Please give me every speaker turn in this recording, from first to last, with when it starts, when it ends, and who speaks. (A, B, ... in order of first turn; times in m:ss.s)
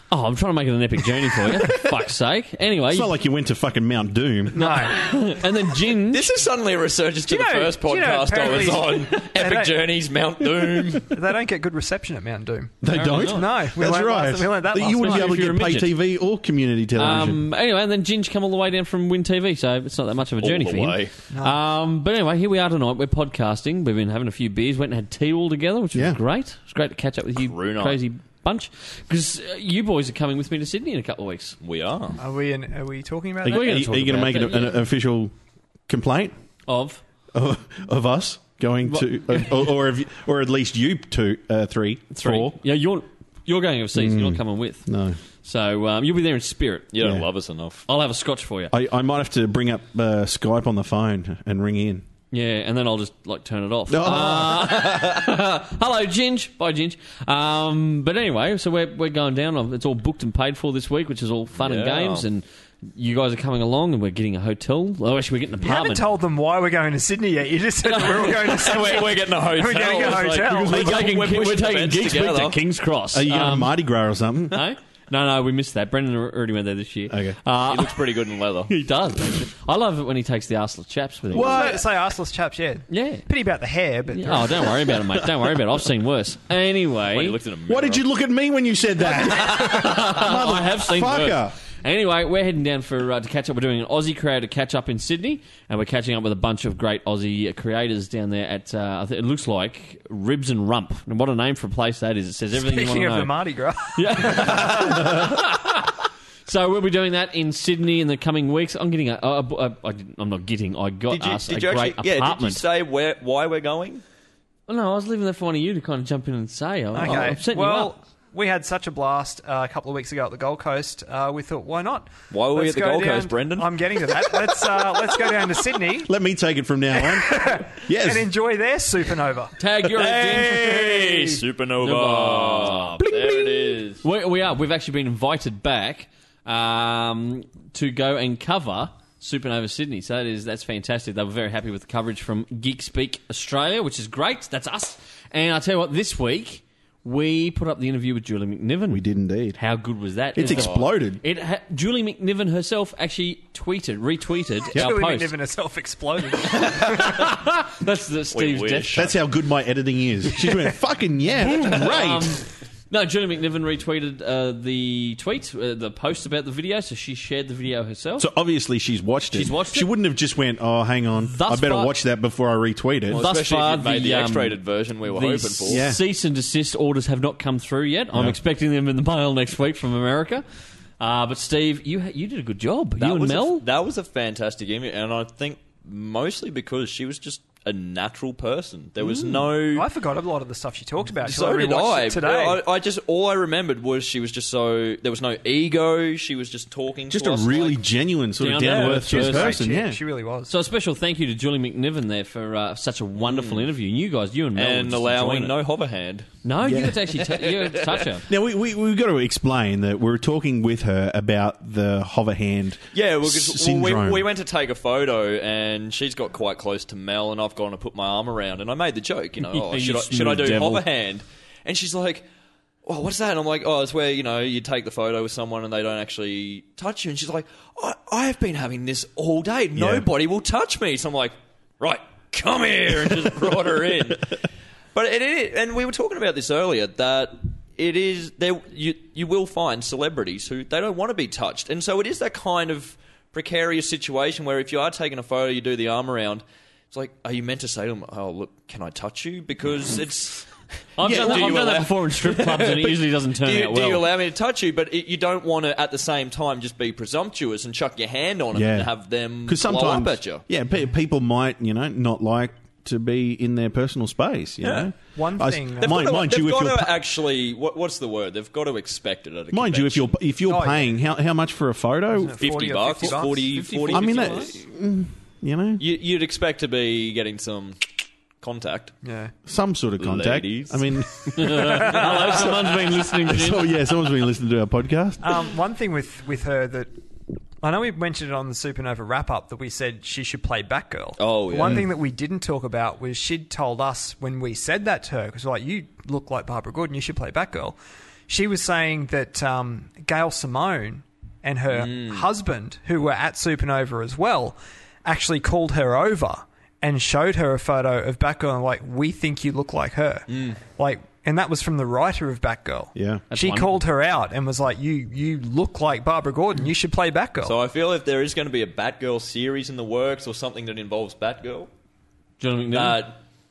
0:00.1-0:03.1 A
0:02.9-0:04.8 B
0:04.5-0:05.0 C
0:04.6-0:06.3 A
0:06.1-0:11.2 D
0:07.2-0:09.8 C
0:11.0-0:15.6 C
0:12.8-0:17.4 B
0:12.9-0:13.5 A
0:14.8-0:15.9 A
0:17.0-0:31.6 A
0:20.4-0:21.1 D
0:21.3-0:21.6 C
0:25.9-0:26.2 B
0:27.4-0:28.0 D
0:31.6-0:32.2 D
0:32.2-0:33.8 C
0:33.4-0:35.3 B
0:33.4-0:34.8 A
0:35.9-0:36.3 B
0:36.7-0:37.0 A
0:37.3-0:42.6 B
0:38.9-0:39.5 A
0:42.1-0:44.9 A
0:43.9-0:45.2 B
0:45.4-0:46.9 A
0:46.9-0:47.8 D
0:47.0-0:47.3 B
0:47.9-0:48.7 A
0:48.7-0:52.0 B
0:52.3-1:06.0 A
0:53.9-0:54.8 B
1:01.6-1:02.2 D
1:05.6-1:11.1 C
1:07.8-1:08.8 A
1:08.2-1:12.6 D
1:10.5-1:13.7 A
1:13.1-1:14.6 B
1:14.5-1:21.7 A
1:17.1-1:17.4 B
1:17.6-1:18.7 D
1:21.3-1:21.9 B
1:21.3-1:25.0 C
1:22.9-1:23.2 A
1:24.1-1:27.4 A
1:27.1-1:28.0 D
1:27.7-1:31.6 B
1:29.0-1:43.4 A
1:42.5-1:45.2 C
1:43.9-1:45.9 A
1:46.4-1:52.6 A
1:51.1-1:54.0 D
1:54.7-1:57.9 A
1:56.9-2:06.1 C
2:02.3-2:05.3 D
2:06.0-2:08.3 B
2:07.0-2:09.5 C
2:09.6-2:11.0 A
2:09.9-2:14.0 D
2:10.6-2:11.4 C
2:11.8-2:13.1 A
2:13.1-2:13.8 C
2:14.0-2:29.0 A
2:28.9-2:29.6 B
2:29.6-2:35.3 A
2:30.3-2:31.2 B
2:30.4-2:30.9 D
2:34.7-2:37.2 C
2:36.6-2:39.1 A
2:38.3-2:39.1 D
2:38.9-2:42.4 B
2:41.5-2:48.3 A
2:48.2-2:53.2 B
2:49.3-2:49.9 A
2:51.2-2:51.9 A
2:53.1-2:55.8 D
2:53.1-3:00.4 A
2:55.7-2:56.0 B
3:01.0-3:03.6 A
3:03.0-3:09.9 D
3:09.7-3:12.6 C
3:11.2-3:17.8 D
3:17.1-3:20.0 B
3:18.4-3:19.6 A
3:18.5-3:19.1 D
3:19.1-3:20.5 C
3:20.5-3:25.5 A
3:23.2-3:23.7 D
3:24.6-3:26.3 D
3:26.4-3:28.3 A
3:26.6-3:26.9 B
3:27.2-3:28.1 D
3:28.2-3:34.3 B
3:32.9-3:42.2 D
3:39.4-3:40.8 A
3:42.8-3:54.4 D
3:49.7-3:50.1 B
3:54.9-4:20.4 D
4:11.0-4:14.0 A
4:11.0-4:11.7 B
4:18.5-4:18.9 B
4:19.4-4:26.9 B
4:24.6-4:24.9 D
4:25.1-4:26.0 C
4:25.8-4:30.2 D
4:29.5-4:32.6 B
4:30.5-4:31.0 C
4:32.2-4:33.5 C
4:32.4-4:34.6 D
4:33.0-4:34.6 A
4:33.9-4:35.8 B
4:35.8-4:38.9 D
4:39.0-4:39.3 C
4:39.4-4:42.0 B
4:40.0-4:42.9 D
4:41.3-4:43.8 A
4:41.6-4:42.4 C
4:43.2-4:45.4 B
4:45.2-4:46.9 C
4:47.6-4:57.8 C
4:51.2-4:51.9 D
4:58.3-5:17.6 C
5:01.7-5:02.3 D
5:10.3-5:10.6 D
5:12.9-5:13.2 B
5:13.3-5:13.8 A
5:17.4-5:21.7 D
5:22.4-5:23.0 A
5:22.7-5:23.2 D